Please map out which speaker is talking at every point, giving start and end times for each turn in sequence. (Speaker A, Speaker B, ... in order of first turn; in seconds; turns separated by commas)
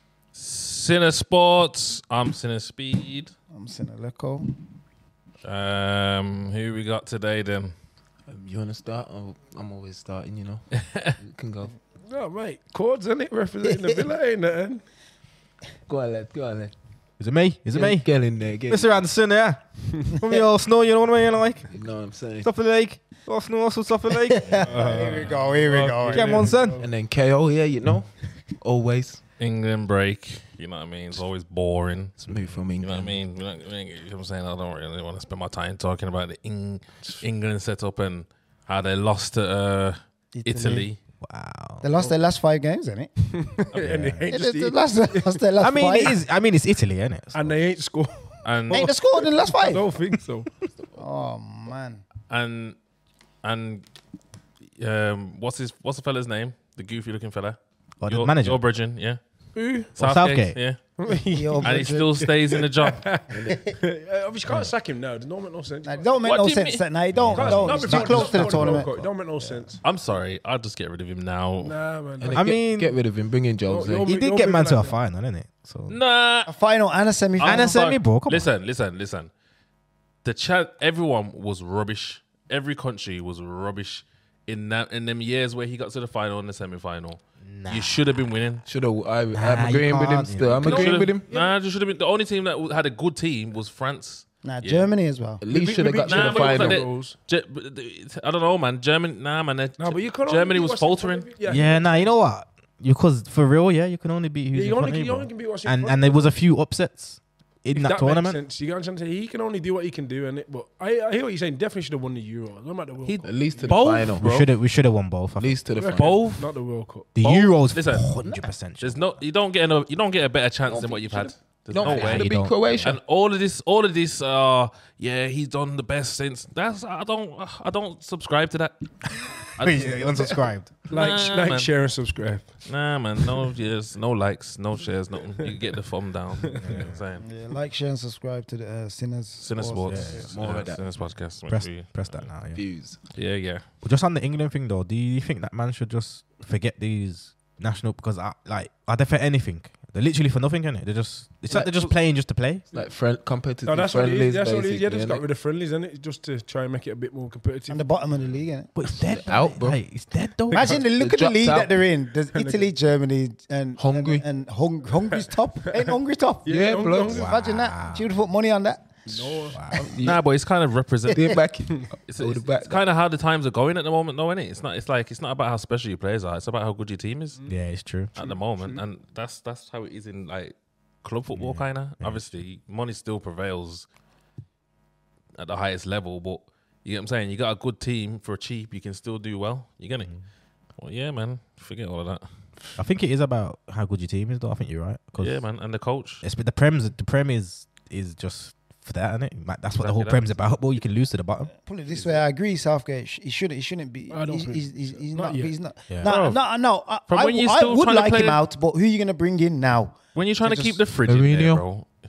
Speaker A: 0.3-3.3, Speaker B: 3.5-4.5, Speaker A: 5.4-7.7, Speaker C: 8.3-10.6, Speaker A: 10.8-11.1, Speaker C: 11.2-11.7, Speaker D: 12.0-14.8, Speaker C: 15.9-16.7, Speaker E: 17.2-18.1, Speaker C: 17.7-18.9, Speaker E: 18.7-21.7, Speaker C: 21.7-22.5, Speaker E: 22.4-24.9, Speaker B: 24.2-26.6, Speaker A: 24.5-25.4, Speaker D: 24.7-26.9, Speaker E: 26.1-26.9, Speaker C: 26.8-29.2, Speaker A: 29.4-32.1, Speaker C: 32.2-33.2, Speaker E: 32.3-32.6, Speaker A: 32.8-41.0, Speaker B: 40.3-40.9, Speaker E: 41.2-41.8, Speaker B: 41.8-43.1, Speaker D: 43.5-45.4, Speaker E: 43.7-44.2, Speaker B: 44.3-46.2, Speaker E: 45.6-47.5, Speaker D: 47.3-50.6, Speaker A: 48.5-48.9, Speaker B: 48.7-49.8, Speaker B: 51.0-52.0, Speaker A: 52.3-52.8, Speaker A: 53.4-53.8, Speaker A: 54.8-59.2, Speaker E: 58.0-58.6, Speaker D: 59.5-59.9, Speaker A: 60.0-60.8, Speaker E: 60.0-60.6, Speaker D: 61.0-66.2, Speaker B: 61.1-62.2, Speaker A: 61.6-63.1, Speaker B: 63.4-63.8, Speaker E: 64.5-64.7, Speaker B: 65.8-68.9, Speaker A: 66.2-66.8, Speaker E: 67.1-69.1, Speaker D: 67.4-69.8, Speaker A: 69.8-71.8, Speaker D: 71.6-72.5, Speaker C: 72.2-74.1, Speaker E: 72.3-73.0, Speaker D: 73.6-75.0, Speaker E: 74.0-76.0, Speaker A: 75.9-76.5, Speaker B: 76.5-77.7, Speaker A: 77.4-79.3, Speaker E: 77.4-78.5, Speaker A: 80.2-88.6, Speaker E: 87.4-88.2, Speaker C: 88.6-91.3, Speaker E: 89.3-90.7, Speaker D: 90.6-91.6, Speaker A: 90.6-94.9, Speaker B: 94.4-95.4, Speaker C: 95.4-96.9, Speaker D: 95.5-97.1, Speaker A: 96.0-101.3, Speaker D: 99.8-102.1, Speaker E: 101.4-108.4, Speaker D: 104.5-106.3, Speaker D: 107.7-114.0, Speaker A: 113.0-114.5, Speaker C: 113.2-114.5, Speaker E: 114.2-115.6, Speaker C: 115.4-116.3, Speaker D: 115.8-117.1, Speaker A: 115.9-116.5, Speaker E: 117.2-119.0, Speaker A: 117.2-118.2, Speaker A: 118.8-130.1, Speaker C: 120.7-122.9, Speaker E: 121.8-123.0, Speaker E: 129.6-130.8, Speaker A: 130.9-131.7, Speaker D: 130.9-132.5, Speaker A: 132.7-137.2, Speaker D: 136.5-136.9, Speaker E: 136.6-137.0, Speaker B: 137.2-140.1, Speaker A: 139.4-142.3, Speaker E: 139.9-140.3, Speaker C: 140.1-140.9, Speaker E: 141.5-142.6, Speaker C: 142.5-143.0, Speaker A: 143.1-143.6, Speaker E: 143.8-152.6, Speaker C: 152.7-155.2, Speaker D: 153.6-157.8, Speaker B: 157.7-158.7, Speaker E: 158.8-160.8, Speaker C: 159.0-159.8, Speaker D: 160.5-160.8, Speaker B: 160.5-169.5, Speaker C: 160.9-161.8, Speaker D: 162.3-162.7, Speaker C: 163.8-164.2, Speaker D: 166.4-167.3, Speaker C: 166.5-167.1, Speaker E: 167.1-168.1, Speaker D: 169.1-170.0, Speaker E: 169.5-169.8, Speaker C: 169.8-170.2, Speaker A: 170.0-177.4, Speaker C: 171.1-172.8, Speaker E: 177.5-178.1, Speaker A: 178.2-183.9, Speaker D: 178.2-178.8, Speaker E: 181.4-182.3, Speaker A: 185.4-190.1, Speaker A: 190.8-192.2, Speaker E: 192.8-195.4, Speaker A: 195.2-196.2, Speaker E: 196.2-201.5, Speaker A: 199.8-200.3, Speaker B: 201.6-210.8, Speaker D: 204.1-205.5, Speaker E: 205.9-206.2, Speaker A: 206.0-206.5, Speaker A: 207.1-208.4, Speaker A: 210.2-211.9, Speaker C: 211.1-211.6